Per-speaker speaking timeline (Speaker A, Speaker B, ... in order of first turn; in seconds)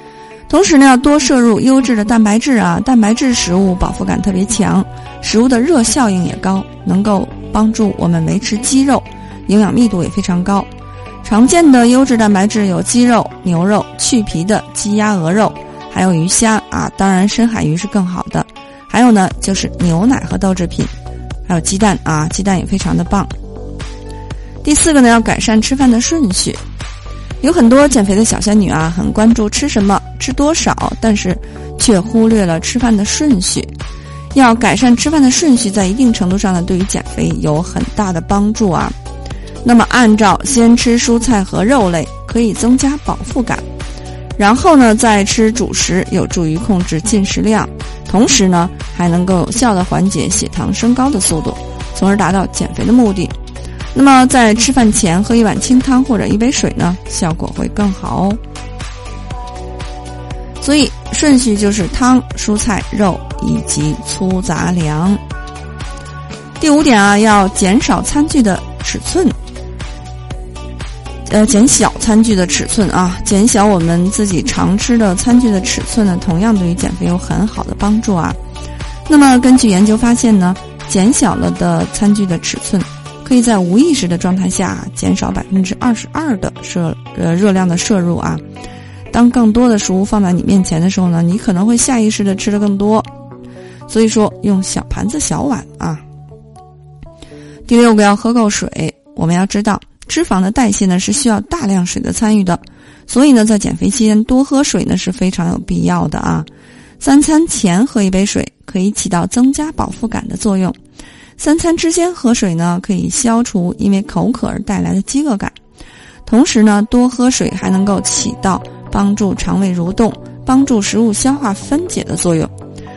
Speaker A: 0.5-10.7, 11.2-20.9, 21.5-23.3, 24.6-26.6, 27.4-33.7, 34.3-39.0, 39.6-43.6, 44.4-53.4, 53.9-58.4, 60.6-65.2, 66.6-69.4, 71.3-78.4, 79.1-88.4, 89.1-93.1, 93.9-96.0, 97.7-106.5, 107.0-110.8, 111.4-115.6, 116.3-122.5